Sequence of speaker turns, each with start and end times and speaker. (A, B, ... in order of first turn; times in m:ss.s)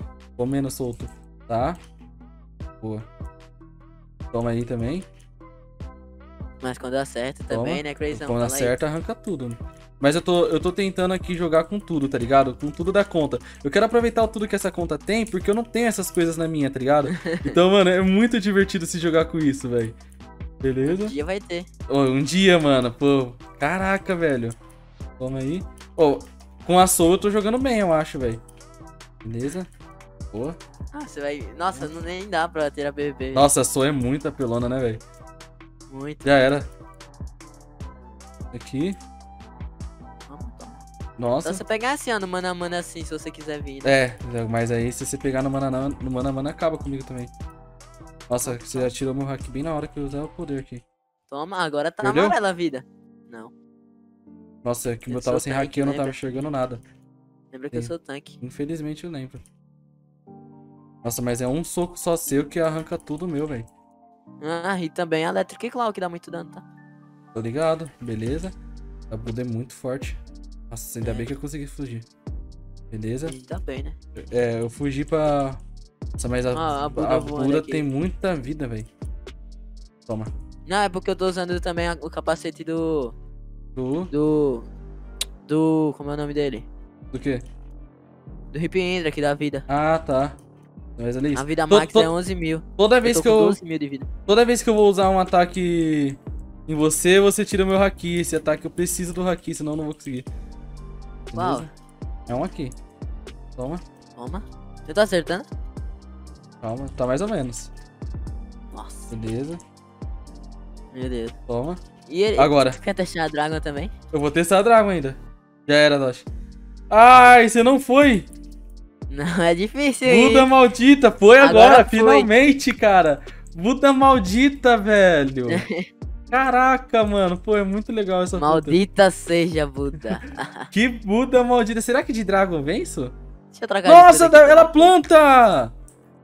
0:00.4-0:01.8 A
0:02.8-0:03.1 A
0:04.3-0:05.1 A
0:06.6-0:08.7 B
0:07.5-0:20.0 A
0:17.1-0:17.6 B
0:20.6-0:21.1 A
0:20.8-0:21.7 B
0:21.9-0:24.6 A
0:25.2-0:28.4 A
0:29.2-0:29.7 A
0:30.9-0:33.5 B
0:33.3-0:35.0 A
0:35.9-0:36.2 B
0:36.2-0:36.6 A
0:38.5-0:39.0 A
0:40.3-0:40.8 B
0:41.2-0:41.6 A
0:41.4-0:43.9 B
0:43.8-0:47.3 A
0:48.3-0:50.8 A
0:48.4-0:48.9 B
0:51.3-0:53.5 B
0:52.0-0:52.4 A
0:54.6-0:56.8 A
0:55.1-0:56.3 B
0:57.5-0:58.4 B
0:57.7-0:59.4 A
1:01.0-1:03.7 A
1:04.4-1:06.6 B
1:07.3-1:08.5 A
1:09.1-1:10.2 A
1:10.7-1:12.1 A
1:11.0-1:11.3 B
1:12.9-1:13.4 A
1:13.2-1:14.0 B
1:14.2-1:15.6 A
1:16.2-1:18.9 A
1:16.5-1:17.9 B
1:20.6-1:23.1 B
1:23.8-1:24.1 A
1:24.1-1:24.7 B
1:25.4-1:26.7 B
1:27.1-1:27.4 A
1:28.5-1:29.6 B
1:29.7-1:30.4 A
1:31.0-1:32.1 A
1:31.3-1:34.1 B
1:32.8-1:33.6 A
1:34.3-1:40.3 A
1:41.3-1:41.7 A
1:41.3-1:41.7 B
1:42.3-1:42.7 A
1:43.6-1:43.8 A
1:44.2-1:45.5 B
1:46.6-1:47.7 A
1:48.7-1:49.1 B
1:49.1-1:49.6 A
1:50.9-1:51.4 B
1:51.5-1:51.8 A
1:52.0-1:53.9 B
1:52.4-1:52.8 A
1:54.1-1:56.3 A
1:56.9-1:58.3 A
1:59.1-2:00.5 B
2:00.0-2:05.6 A
2:01.4-2:02.3 B
2:05.5-2:05.9 B
2:06.3-2:08.8 A
2:08.4-2:10.7 B
2:10.7-2:13.1 A
2:13.5-2:14.9 B
2:13.8-2:15.7 A